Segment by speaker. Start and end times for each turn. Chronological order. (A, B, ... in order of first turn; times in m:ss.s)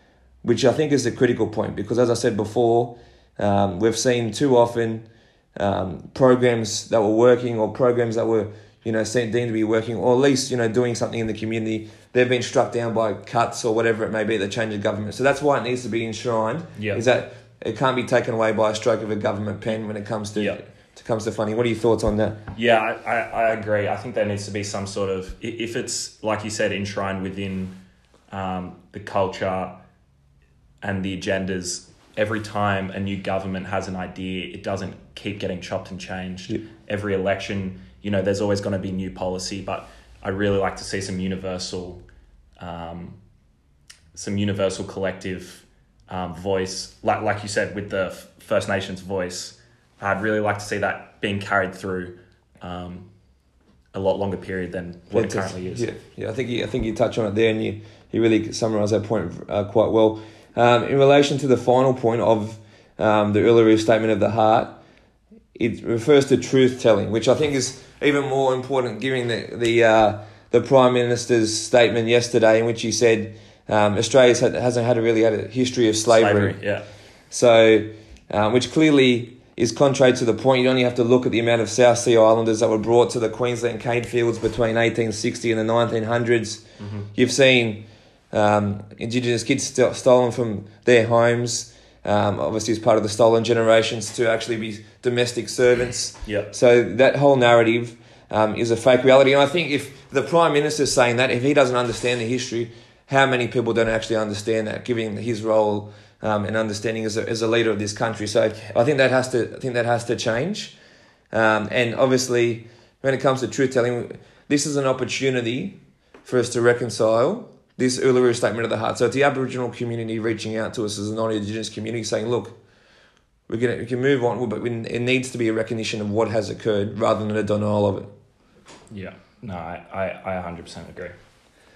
0:00.4-0:22.4 A
0:16.8-0:17.0 B
0:22.5-0:27.8 B
0:28.3-0:29.8 B
0:30.8-0:42.0 B
0:42.6-0:43.2 B
0:44.1-0:53.1 B
0:53.9-0:55.9 B
0:55.1-1:04.8 A
1:05.6-1:16.6 A
1:16.1-1:16.8 B
1:17.3-1:26.6 A
1:27.1-1:50.8 A
1:36.2-1:36.5 B
1:51.3-2:02.5 A
2:03.5-2:08.1 A
2:08.9-2:11.1 B